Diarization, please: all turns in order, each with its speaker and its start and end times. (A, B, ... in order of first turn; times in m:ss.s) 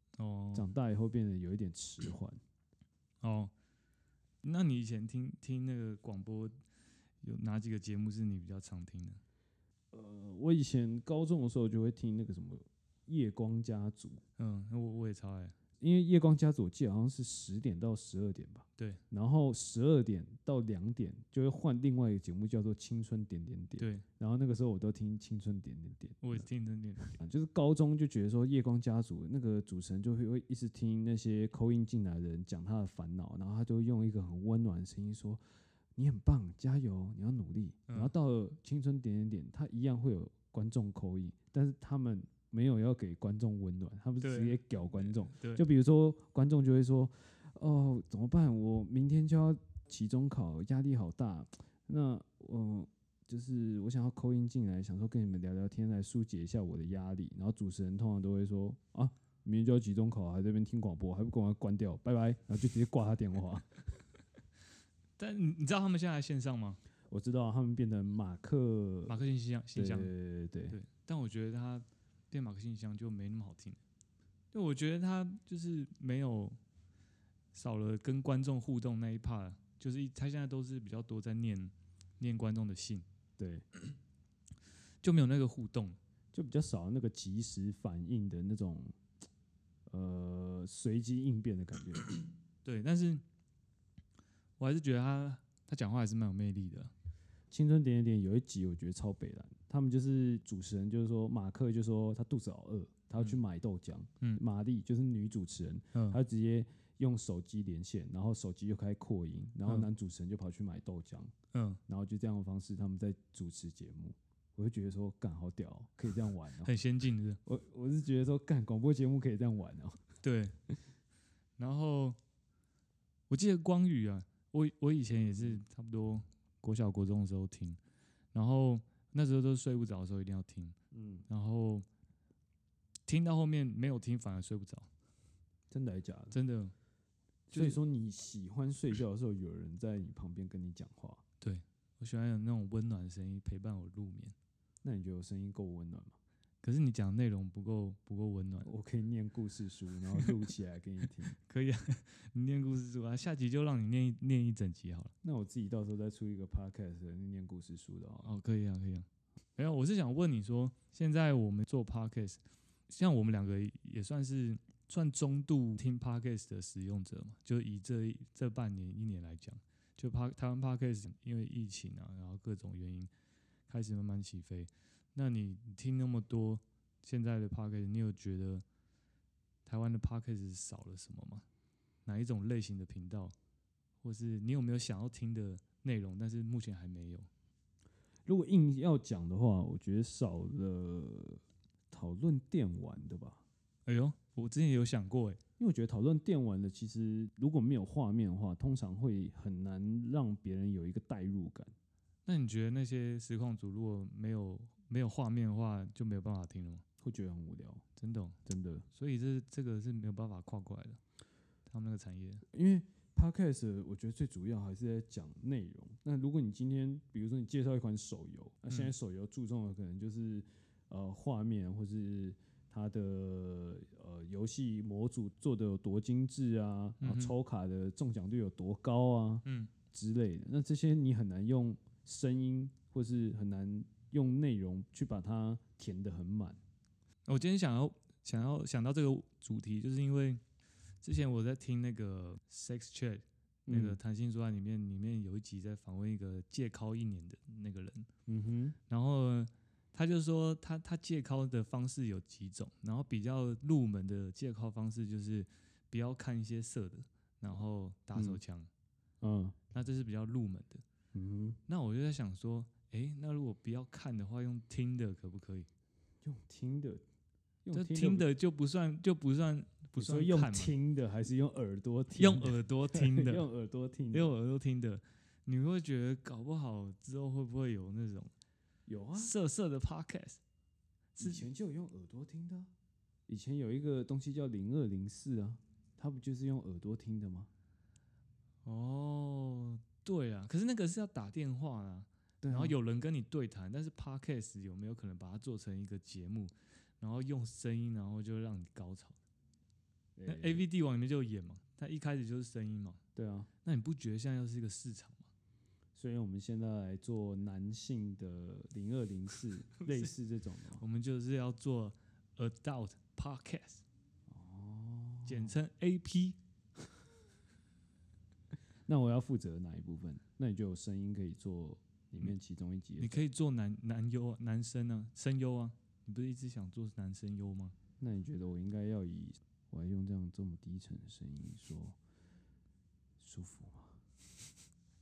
0:00.2-0:00.7 A
0:00.5-0:02.4 B
0:03.2-0:03.5 A
0:04.4-0:06.5 A
0:07.2-0:09.2 A
0:09.9-0:14.2 B
0:14.4-0:15.6 A
0:15.8-0:26.5 B
0:23.8-0:24.0 A
0:26.2-0:27.2 A
0:27.0-0:35.4 B
0:36.0-1:03.7 B
0:44.2-0:45.6 A
1:05.2-1:06.8 A
1:07.1-1:09.1 B
1:09.1-1:10.1 A
1:09.8-1:10.8 B
1:10.7-1:13.8 A
1:14.5-1:16.6 A
1:17.5-1:23.0 A
1:23.4-1:23.6 B
1:25.0-1:26.0 A
1:26.3-1:29.0 B
1:29.9-1:32.2 B
1:32.6-1:33.2 A
1:34.6-1:36.9 A
1:37.5-1:51.3 B
1:51.5-1:51.8 A
1:51.9-1:56.7 B
1:56.6-1:57.4 A
1:57.4-2:00.0 B
2:00.2-2:00.5 A
2:01.6-2:02.2 A
2:03.3-2:07.8 A
2:05.2-2:05.6 B
2:08.3-2:10.8 A
2:10.9-2:11.2 B
2:11.3-2:11.8 A
2:13.1-2:14.9 A
2:15.7-2:16.4 B
2:16.3-2:16.7 A
2:17.5-2:21.2 B
2:17.5-2:17.8 A
2:21.4-2:24.4 A
2:24.8-2:26.2 B
2:26.6-2:28.7 A
2:28.6-2:31.4 B
2:31.4-2:35.1 A
2:35.2-2:38.3 B
2:38.2-2:53.1 A
2:53.7-2:58.6 A
2:59.7-3:01.4 A
3:02.1-3:03.4 A
3:04.0-3:07.3 A
3:08.3-3:13.4 B
3:13.9-3:15.4 A
3:15.6-3:21.7 B
3:22.3-3:26.8 A
3:27.0-3:27.8 B
3:28.0-3:28.4 A
3:28.4-3:28.9 B
3:28.9-3:31.0 A
3:31.7-3:32.4 A
3:32.5-3:56.6 B
3:47.0-3:47.4 A
3:49.4-3:49.7 A
3:57.3-4:00.4 A
4:01.0-4:08.1 A
4:03.7-4:04.0 B
4:08.3-4:08.8 B
4:08.9-4:18.7 A
4:18.2-4:18.4 B
4:19.2-4:19.6 B
4:19.7-4:20.8 A
4:21.1-4:21.6 B
4:21.7-4:25.7 A
4:26.2-4:27.0 B
4:27.6-4:28.3 B
4:27.7-4:30.7 A
4:30.0-4:34.3 B
4:32.2-4:33.4 A
4:34.1-4:38.3 A
4:38.9-4:39.3 B
4:39.2-4:40.4 A
4:41.2-4:41.5 A
4:41.2-4:42.7 B
4:43.3-4:47.5 B
4:48.6-4:59.2 A
4:52.4-4:52.8 B
5:00.2-5:00.6 B
5:00.3-5:03.0 A
5:03.2-5:03.5 B
5:03.6-5:05.3 A
5:06.0-5:10.8 B
5:09.8-5:10.1 A
5:10.8-5:13.8 A
5:14.3-5:15.5 B
5:15.3-5:16.4 A
5:18.9-5:23.3 B
5:23.0-5:27.8 A
5:28.0-5:32.0 B
5:33.2-5:34.0 B